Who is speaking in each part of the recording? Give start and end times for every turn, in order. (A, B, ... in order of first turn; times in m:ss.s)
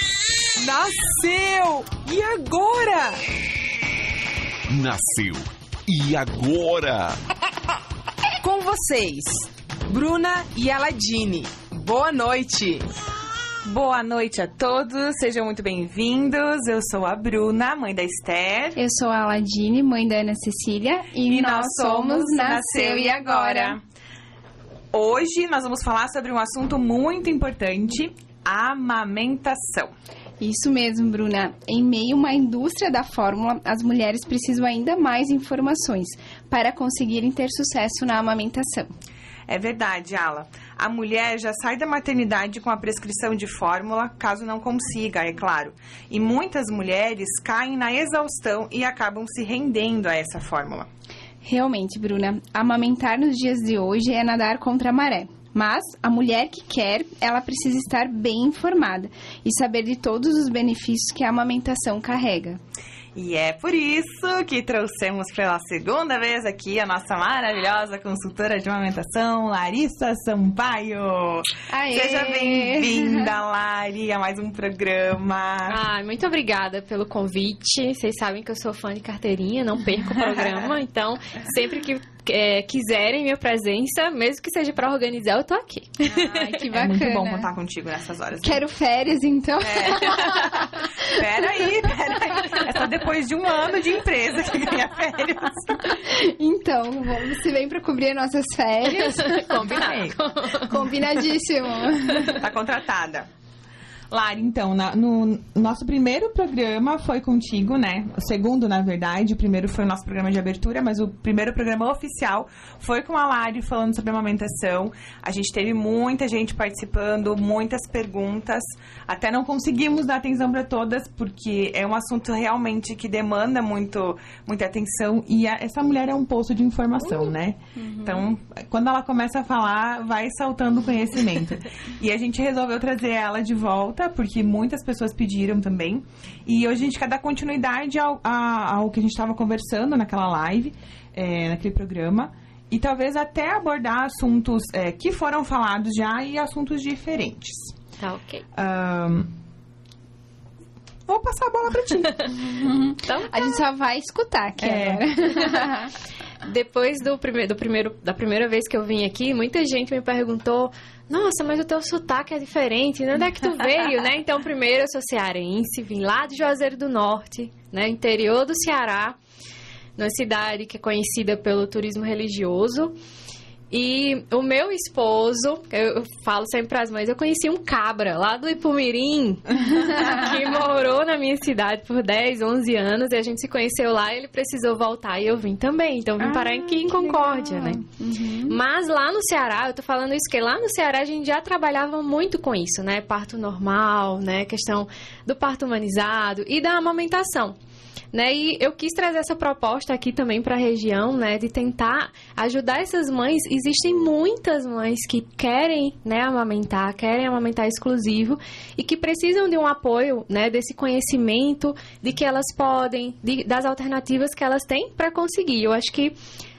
0:00.6-0:03.2 A
0:04.7-0:07.2 B
0:08.4-0:12.9 A
0:13.6-0:18.8 C
0:18.8-0:23.8 D
0:21.3-0:23.8 C
0:24.9-0:29.9 C
0:30.4-0:38.9 D
0:39.5-0:50.9 C
0:51.4-1:02.6 D
1:03.2-1:15.8 C
1:11.7-1:13.3 D
1:15.7-1:26.2 E
1:26.1-1:27.5 D
1:26.7-1:28.6 C
1:28.4-1:30.8 D
1:29.6-1:36.0 C
1:36.0-1:39.4 D
1:39.2-1:40.7 E
1:39.2-1:40.2 C
1:40.6-1:42.4 D
1:42.2-1:43.3 C
1:44.1-2:27.8 C
2:07.8-2:08.3 D
2:28.0-2:28.4 E
2:28.5-2:29.3 C
2:31.1-2:32.5 C
2:32.6-2:35.9 D
2:33.0-2:33.5 E
2:34.6-2:35.1 C
2:36.4-2:49.2 E
2:50.0-2:53.0 E
2:53.7-3:07.8 E
3:06.2-3:08.6 D
3:08.5-3:17.6 E
3:18.1-3:36.2 E